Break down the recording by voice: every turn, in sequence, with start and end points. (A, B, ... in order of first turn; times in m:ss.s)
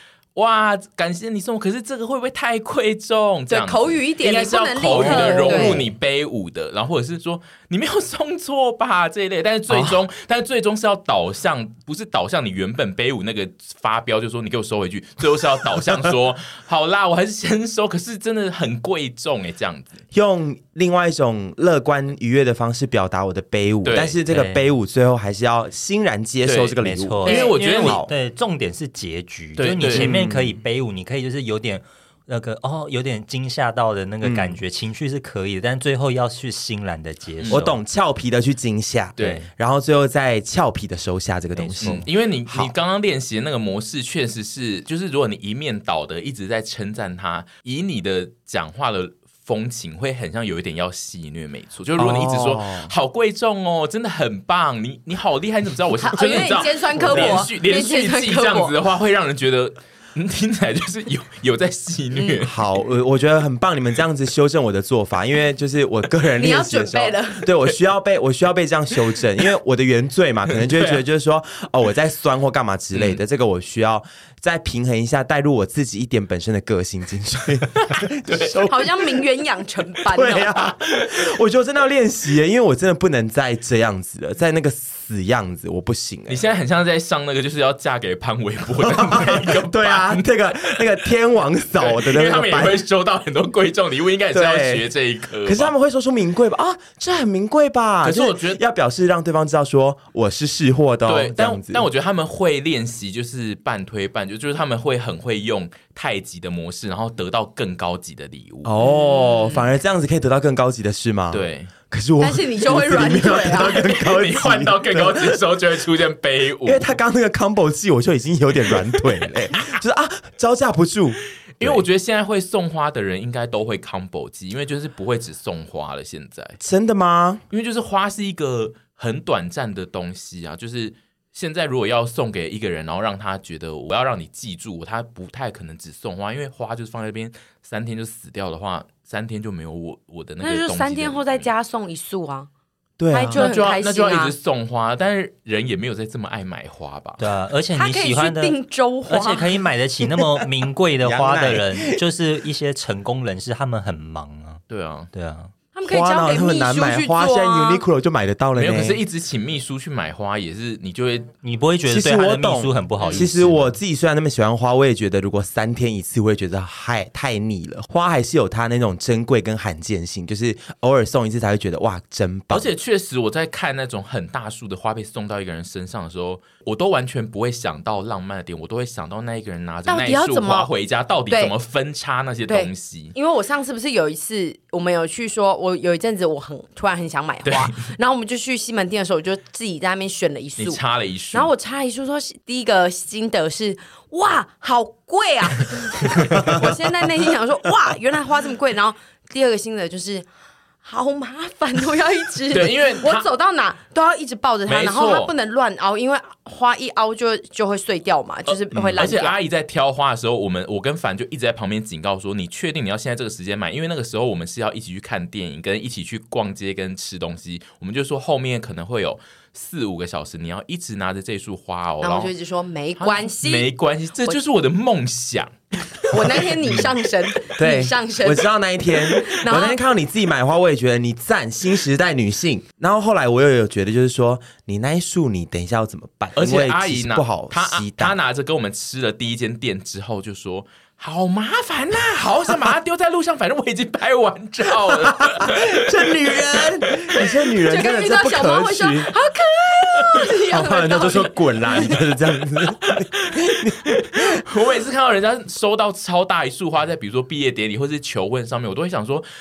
0:00.3-0:20.0 A
0:03.5-0:05.8 B
0:04.9-0:05.8 C
0:09.7-0:10.0 C
0:20.1-0:28.1 C
0:23.8-0:24.2 A
0:24.3-0:24.6 D
0:26.4-0:28.0 A
0:26.8-0:37.8 D
0:29.6-0:30.1 A
0:29.9-0:30.6 C
0:34.2-0:34.6 C
0:37.4-0:37.6 A
0:37.5-0:42.7 C
0:39.2-0:39.4 A
0:39.2-0:39.4 D
0:41.6-0:42.0 D
0:41.8-1:02.6 A
0:52.0-0:52.9 C
0:56.0-0:58.7 B
0:57.0-0:57.4 C
1:02.1-1:02.4 B
1:02.4-1:19.0 C
1:06.4-1:07.5 B
1:10.5-1:11.0 A
1:12.9-1:13.2 A
1:17.9-1:18.6 A
1:18.7-1:20.6 B
1:20.0-1:26.4 C
1:26.3-1:30.9 A
1:28.8-1:32.8 C
1:31.8-1:35.7 A
1:34.3-1:34.9 C
1:35.4-1:41.9 C
1:38.0-1:38.6 A
1:41.0-1:48.7 A
1:48.6-1:55.4 C
1:48.8-1:49.6 B
1:51.3-1:51.7 A
1:52.2-1:54.0 B
1:53.8-1:56.9 A
1:56.6-2:01.8 C
2:01.6-2:06.6 A
2:06.6-2:07.4 C
2:07.5-2:21.5 A
2:20.4-2:22.5 B
2:23.0-2:23.4 C
2:23.1-2:24.3 B
2:23.3-2:27.2 A
2:27.2-2:35.5 D
2:27.7-2:29.5 B
2:31.0-2:32.0 C
2:34.7-2:35.1 A
2:35.7-2:37.8 B
2:35.8-2:39.0 C
2:38.6-2:41.3 A
2:41.4-2:43.8 D
2:41.9-2:52.7 C
2:43.0-2:43.3 A
2:52.5-3:03.1 A
2:59.9-3:00.7 B
3:02.5-3:10.8 B
3:07.4-3:07.7 A
3:10.6-3:11.5 A
3:11.3-3:20.3 B
3:16.3-3:16.7 C
3:20.8-3:29.4 B
3:22.5-3:23.2 A
3:24.7-3:25.3 A
3:28.5-3:42.3 A
3:28.7-3:29.1 C
3:42.0-3:43.7 B
3:43.0-3:46.6 A
3:46.1-3:48.5 B
3:47.6-3:58.2 C
3:49.1-3:49.8 B
3:56.4-4:07.4 A
4:04.8-4:09.1 C
4:07.6-4:12.0 B
4:10.5-4:14.4 C
4:12.8-4:19.2 A